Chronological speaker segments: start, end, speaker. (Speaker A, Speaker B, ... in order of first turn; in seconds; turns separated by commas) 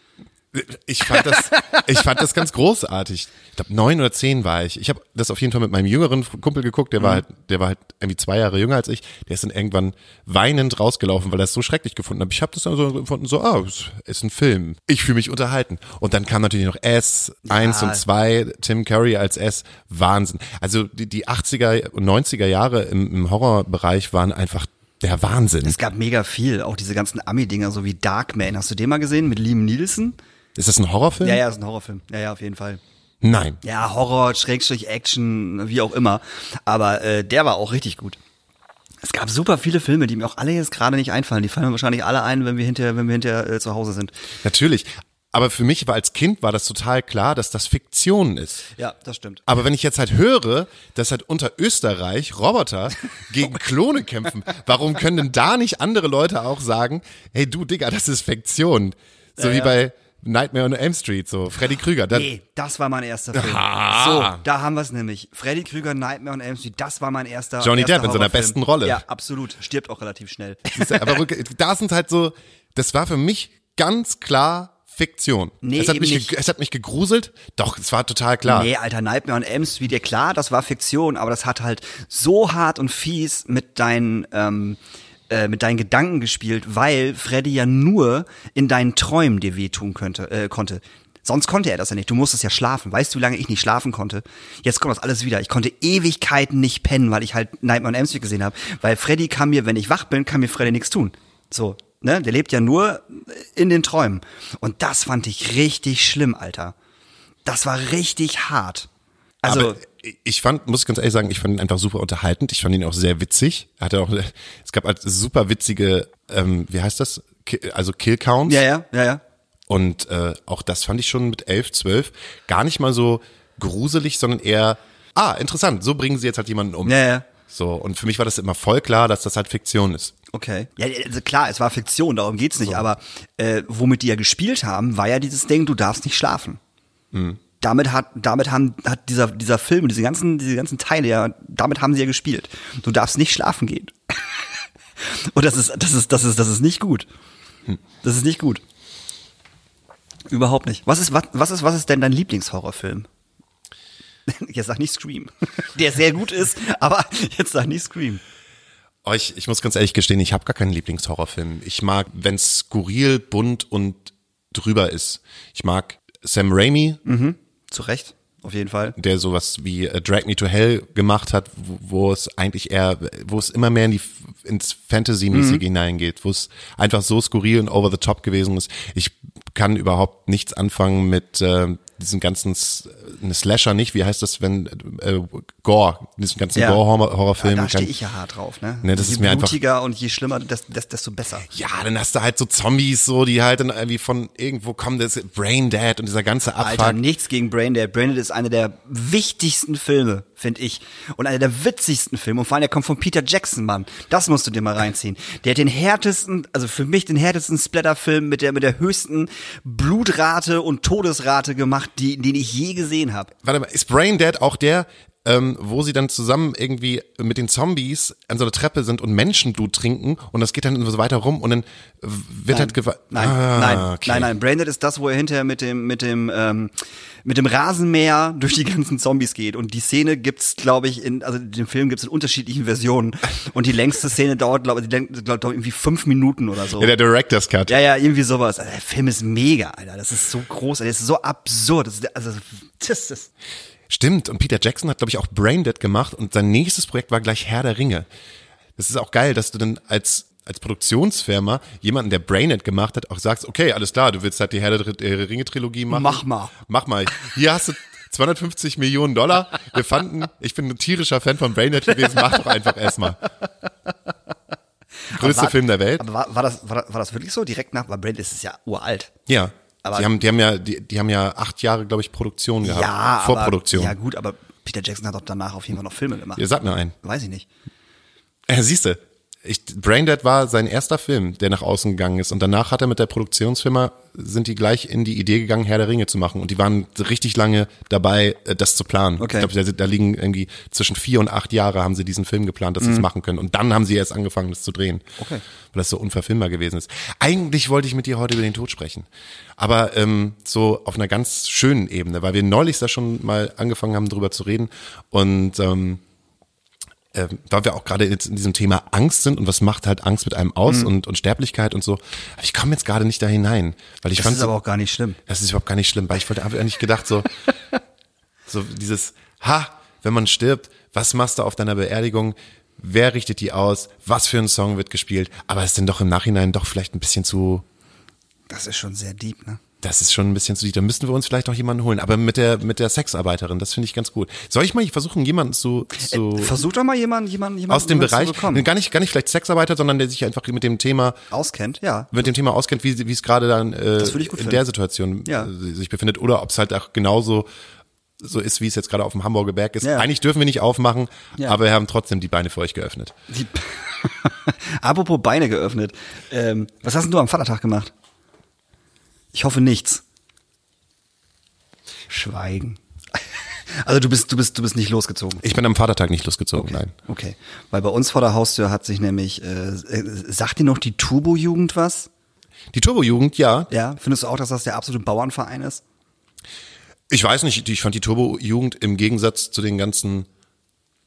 Speaker A: 0.5-25.8, Speaker B: 1.3-1.8, Speaker B: 17.5-18.0, Speaker B: 25.6-30.2, Speaker A: 30.6-31.4, Speaker B: 31.2-32.8, Speaker A: 33.2-33.6, Speaker B: 33.6-38.2, Speaker B: 39.0-44.1, Speaker A: 44.4-48.7, Speaker B: 48.8-49.4, Speaker A: 49.5-62.3, Speaker B: 59.4-59.8, Speaker B: 62.1-71.1, Speaker A: 63.3-64.4, Speaker A: 67.6-69.0, Speaker A: 70.8-78.7, Speaker B: 75.6-76.3, Speaker B: 78.5-84.8, Speaker B: 85.3-106.8, Speaker B: 107.5-108.9, Speaker A: 109.4-118.7, Speaker B: 109.4-109.8, Speaker B: 118.5-119.2, Speaker A: 119.7-130.2, Speaker B: 126.8-127.2, Speaker B: 130.3-136.6, Speaker A: 137.1-137.4, Speaker B: 137.6-143.9, Speaker B: 145.0-147.1, Speaker B: 148.0-148.6, Speaker B: 150.3-153.1, Speaker B: 154.3-158.2, Speaker A: 159.1-167.0, Speaker B: 167.1-169.0, Speaker A: 169.0-187.9, Speaker B: 175.3-175.6, Speaker B: 186.6-186.8, Speaker B: 187.4-191.5, Speaker A: 188.8-189.6, Speaker A: 191.5-197.0, Speaker B: 196.6-213.3, Speaker A: 213.4-224.3, Speaker B: 222.5-226.7, Speaker B: 227.2-236.9, Speaker A: 236.8-237.8, Speaker B: 237.7-243.3, Speaker A: 243.9-248.1, Speaker A: 248.8-263.2, Speaker B: 255.9-256.6, Speaker B: 265.1-269.1, Speaker A: 265.1-266.0, Speaker A: 269.3-273.9, Speaker B: 269.8-270.1, Speaker B: 272.6-276.5, Speaker A: 276.4-276.9, Speaker B: 277.0-277.5, Speaker A: 278.5-295.1, Speaker B: 289.2-289.5, Speaker B: 292.8-293.1, Speaker A: 295.7-299.1, Speaker A: 299.6-306.0, Speaker A: 307.1-314.5, Speaker B: 314.1-315.2, Speaker A: 315.3-317.3, Speaker A: 318.5-327.6, Speaker B: 328.5-329.6, Speaker A: 329.8-336.6, Speaker B: 336.0-338.7, Speaker A: 337.7-341.2, Speaker B: 341.3-342.1, Speaker A: 342.1-347.5, Speaker B: 344.0-344.6, Speaker B: 345.2-345.5, Speaker A: 348.2-353.1, Speaker B: 349.8-350.1, Speaker B: 353.3-357.9, Speaker B: 359.3-360.0, Speaker B: 362.1-365.4, Speaker A: 365.4-366.9, Speaker B: 366.6-372.1, Speaker A: 372.7-373.7, Speaker B: 373.7-375.8, Speaker A: 377.1-380.3